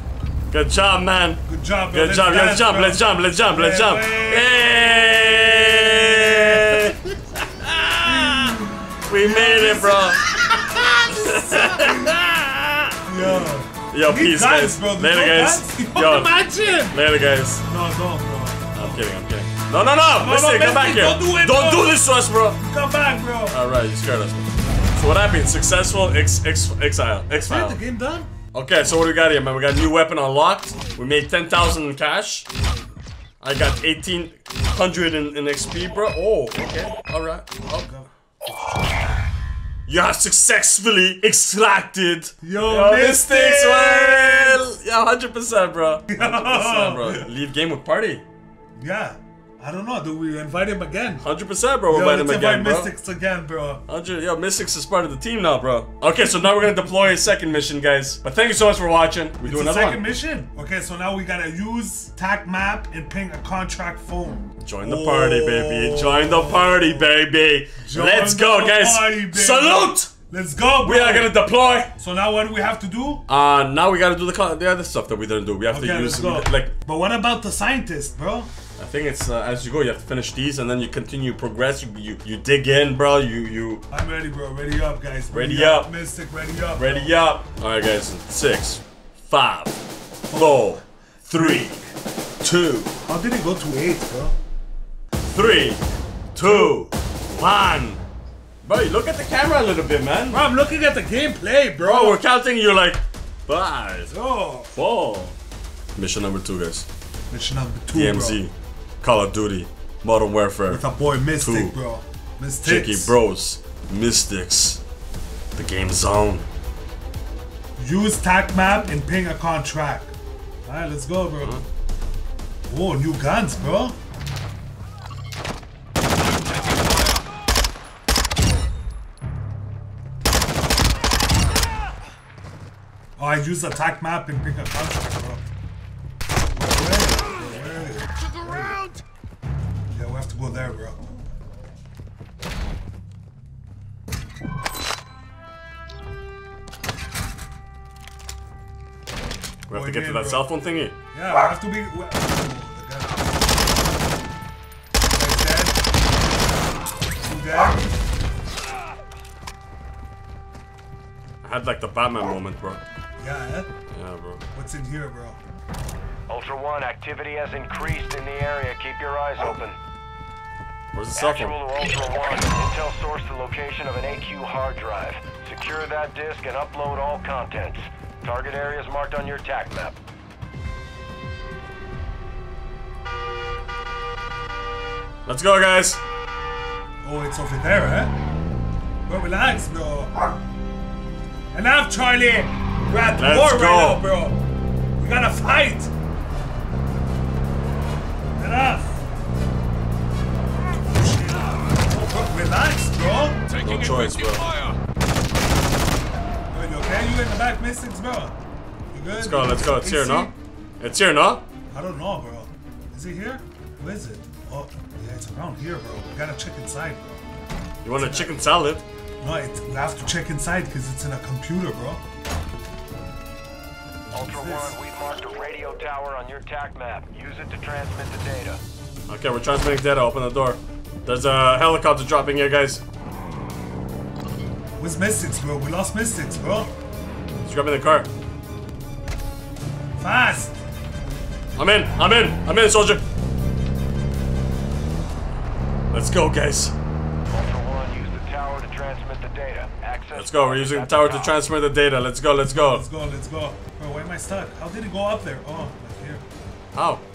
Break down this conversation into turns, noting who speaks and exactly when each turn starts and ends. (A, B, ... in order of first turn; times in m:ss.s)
0:00.5-0:16.3 A
0:01.4-0:07.2 B
0:08.0-0:12.1 B
0:13.0-0:17.0 B
0:16.9-0:17.6 A
0:17.6-0:19.1 B
0:18.7-0:22.6 A
0:20.1-0:22.0 B
0:22.6-0:23.6 B
0:23.5-0:27.8 A
0:27.4-0:28.3 B
0:28.5-0:32.5 A
0:33.4-0:37.9 A
0:37.7-0:39.0 B
0:39.9-0:48.2 A
0:42.4-0:44.6 B
0:46.1-0:47.3 B
0:48.8-0:51.2 B
0:51.2-0:52.9 A
0:51.9-0:53.8 B
0:53.9-1:00.0 A
0:59.4-1:07.1 B
1:04.6-1:10.1 A
1:07.8-1:11.3 B
1:10.8-1:11.9 A
1:12.0-1:13.2 B
1:13.3-1:16.7 A
1:15.7-1:18.5 B
1:18.8-1:23.8 A
1:23.9-1:27.1 B
1:25.3-1:25.9 A
1:26.8-1:29.8 A
1:30.3-1:31.8 B
1:30.3-1:31.8 A
1:32.4-1:33.0 A
1:33.0-1:34.4 B
1:35.3-1:35.8 A
1:36.3-1:38.0 A
1:36.4-1:36.8 B
1:38.6-1:40.4 A
1:40.3-1:42.2 B
1:41.8-1:44.1 A
1:44.1-1:44.7 B
1:44.7-1:45.4 A
1:46.0-1:46.8 A
1:47.3-1:48.4 B
1:47.9-1:50.8 A
1:50.7-1:53.2 B
1:51.4-1:51.7 A
1:52.6-1:54.8 A
1:55.5-1:56.4 A
1:57.8-2:00.1 B
2:00.6-2:01.6 B
2:02.7-2:04.0 B
2:06.3-2:07.2 C
2:13.2-2:15.5 B
2:16.5-2:18.9 B
2:18.2-2:19.0 C
2:19.9-2:21.1 B
2:29.7-2:30.9 A
2:29.7-2:30.5 B
2:31.1-2:33.8 B
2:35.1-2:35.8 B
2:37.2-2:37.8 B
2:41.4-2:42.8 A
2:43.2-2:43.7 B
2:43.9-2:44.4 A
2:44.5-2:45.4 B
2:46.3-2:49.8 D
2:50.9-2:51.6 A
2:51.2-3:00.0 D
3:05.2-3:06.0 A
3:07.0-3:08.1 B
3:09.0-3:10.2 B
3:11.5-3:14.4 B
3:13.2-3:14.0 A
3:15.0-3:15.9 B
3:18.3-3:19.0 B
3:20.7-3:23.4 B
3:23.5-3:24.8 C
3:23.6-3:24.5 A
3:26.5-3:28.4 B
3:28.9-3:30.3 B
3:29.1-3:31.4 A
3:31.7-3:37.2 B
3:37.8-3:38.8 A
3:38.0-3:38.4 B
3:39.2-3:42.0 B
3:44.1-3:48.6 D
3:44.2-3:44.7 B
3:49.1-3:52.8 A
3:54.8-3:56.7 B
3:57.4-3:58.1 A
4:00.0-4:00.6 B
4:01.6-4:03.0 A
4:05.9-4:06.7 A
4:07.3-4:11.4 D
4:10.1-4:12.8 A
4:12.5-4:16.2 B
4:16.7-4:17.0 A